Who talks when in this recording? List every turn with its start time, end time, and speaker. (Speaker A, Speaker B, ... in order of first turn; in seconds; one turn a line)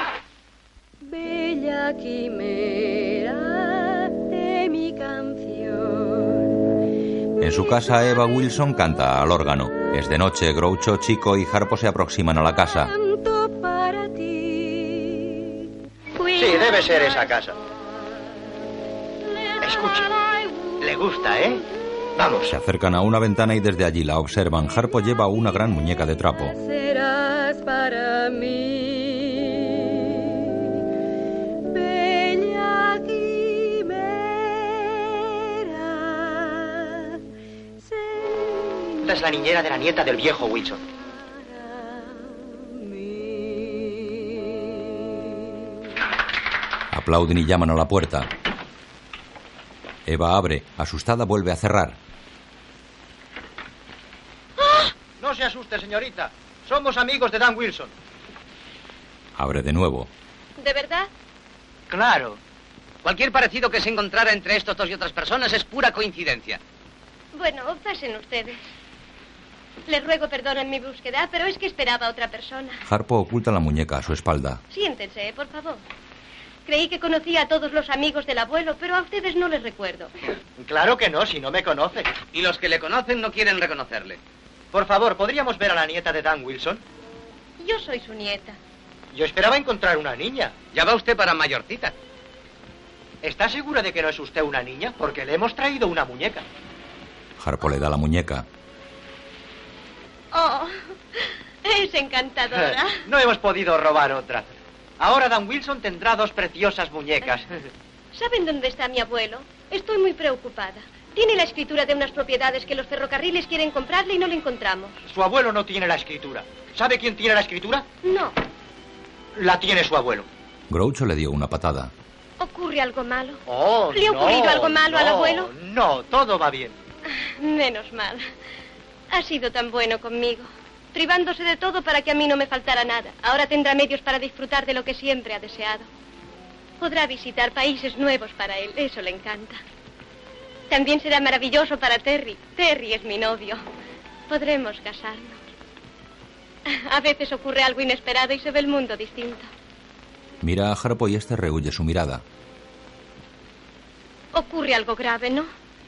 Speaker A: 1.0-6.4
Speaker B: 7.4-12.9
Speaker A: 12.8-15.4
Speaker C: 16.3-17.6
Speaker C: 19.6-20.1
Speaker C: 20.8-21.6
Speaker C: 22.1-22.5
Speaker B: 22.5-26.6
Speaker A: 26.5-30.3
Speaker A: 31.7-37.0
Speaker A: 38.0-38.9
Speaker C: 39.0-40.8
Speaker A: 43.0-43.6
Speaker B: 46.9-48.3
Speaker B: 50.0-52.0
Speaker C: 55.2-57.9
Speaker B: 59.4-60.1
Speaker D: 60.6-61.1
Speaker C: 61.9-62.4
Speaker E: 63.0-66.6
Speaker D: 67.3-68.6
Speaker D: 69.9-72.8
Speaker B: 72.8-74.6
Speaker D: 74.7-75.8
Speaker D: 76.7-80.1
Speaker C: 80.6-82.1
Speaker E: 82.3-84.2
Speaker C: 84.7-86.8
Speaker D: 87.6-88.6
Speaker C: 89.1-90.5
Speaker E: 90.7-91.9
Speaker C: 93.2-96.4
Speaker B: 97.4-98.5
Speaker D: 100.3-103.0
Speaker C: 102.5-107.5
Speaker D: 108.1-115.0
Speaker C: 115.1-117.8
Speaker D: 118.0-118.3
Speaker C: 119.3-120.3
Speaker B: 120.7-121.9
Speaker D: 122.4-125.5
Speaker C: 123.5-126.7
Speaker D: 127.2-128.3
Speaker D: 129.1-135.9
Speaker D: 136.8-139.6
Speaker D: 140.7-143.6
Speaker D: 144.3-145.4
Speaker D: 146.7-149.5
Speaker B: 150.4-152.2
Speaker D: 154.3-155.5